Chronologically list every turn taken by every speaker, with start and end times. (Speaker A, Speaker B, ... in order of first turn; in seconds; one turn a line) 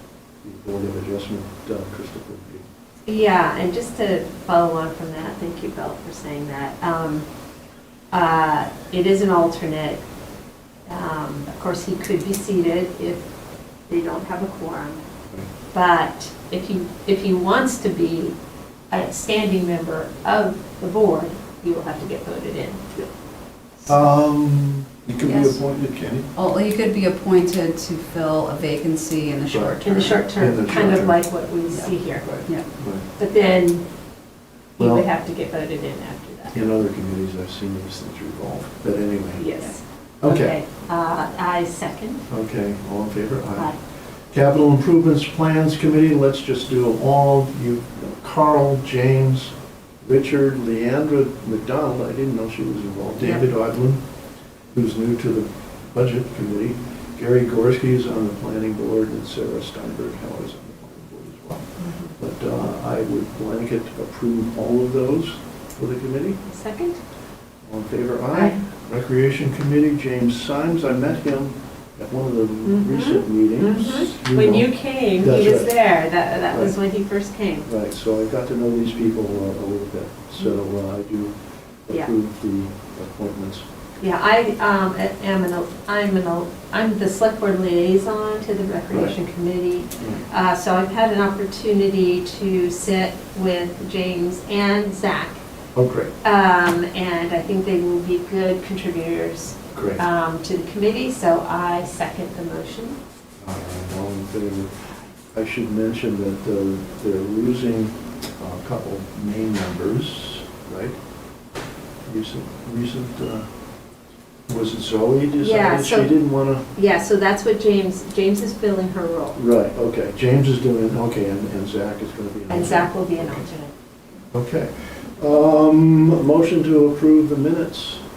Speaker A: 0.4-2.6
Speaker B: 3.1-7.2
Speaker B: 8.1-10.0
Speaker B: 10.9-13.2
Speaker B: 13.9-15.0
Speaker B: 15.7-18.4
Speaker B: 18.9-22.8
Speaker A: 23.9-26.3
Speaker C: 25.2-25.6
Speaker C: 26.3-30.2
Speaker A: 29.5-29.8
Speaker B: 29.8-32.5
Speaker A: 30.3-31.2
Speaker A: 32.2-33.0
Speaker B: 33.2-33.8
Speaker B: 34.8-36.6
Speaker A: 34.8-35.1
Speaker A: 36.5-39.5
Speaker B: 39.4-42.2
Speaker A: 40.2-40.6
Speaker A: 42.3-43.7
Speaker A: 44.3-54.0
Speaker B: 53.2-53.5
Speaker A: 54.7-66.4
Speaker B: 61.8-62.1
Speaker B: 66.5-67.0
Speaker A: 67.7-75.7
Speaker B: 68.3-68.6
Speaker B: 72.7-77.7
Speaker A: 77.7-81.3
Speaker A: 81.8-83.6
Speaker B: 84.0-95.4
Speaker A: 95.7-96.1
Speaker B: 96.2-103.0
Speaker A: 99.7-100.0
Speaker A: 103.4-111.0
Speaker A: 112.0-113.5
Speaker A: 114.5-116.7
Speaker B: 115.4-116.2
Speaker B: 116.7-119.4
Speaker A: 119.3-123.4
Speaker B: 122.5-123.7
Speaker A: 124.3-128.0